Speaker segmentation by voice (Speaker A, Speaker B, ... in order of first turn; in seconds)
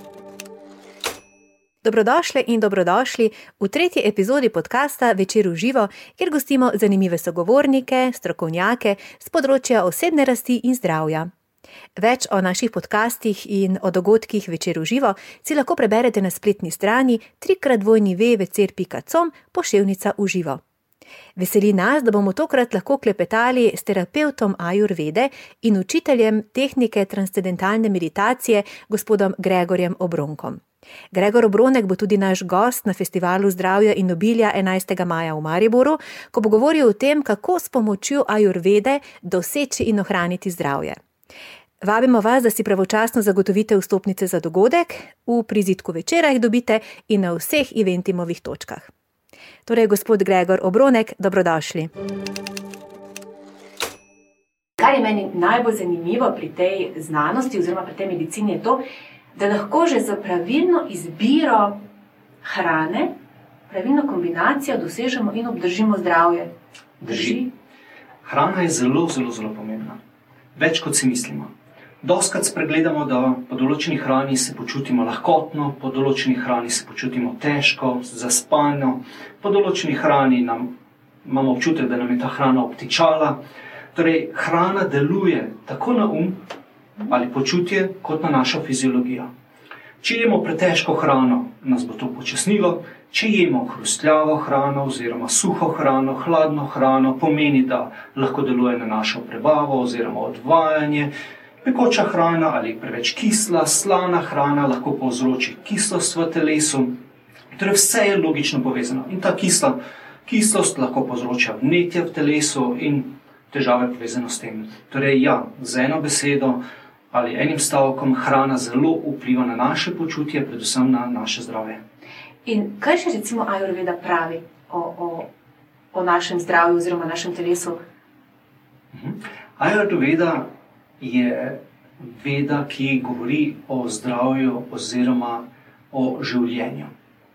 Speaker A: 1.8-11.3, 12.0-20.6, 21.4-41.0, 41.8-48.9, 49.7-51.9, 54.8-58.8, 59.4-61.8, 62.4-63.1, 63.7-66.5, 67.1-67.5, 122.5-125.3, 125.9-127.8
Speaker B: 67.0-67.4, 68.2-70.0, 70.5-71.5, 72.0-80.7, 81.2-83.4, 83.9-86.5, 87.1-89.3, 90.0-101.1, 101.6-107.0, 107.5-116.6, 117.1-121.8, 128.9-130.5, 131.0-136.9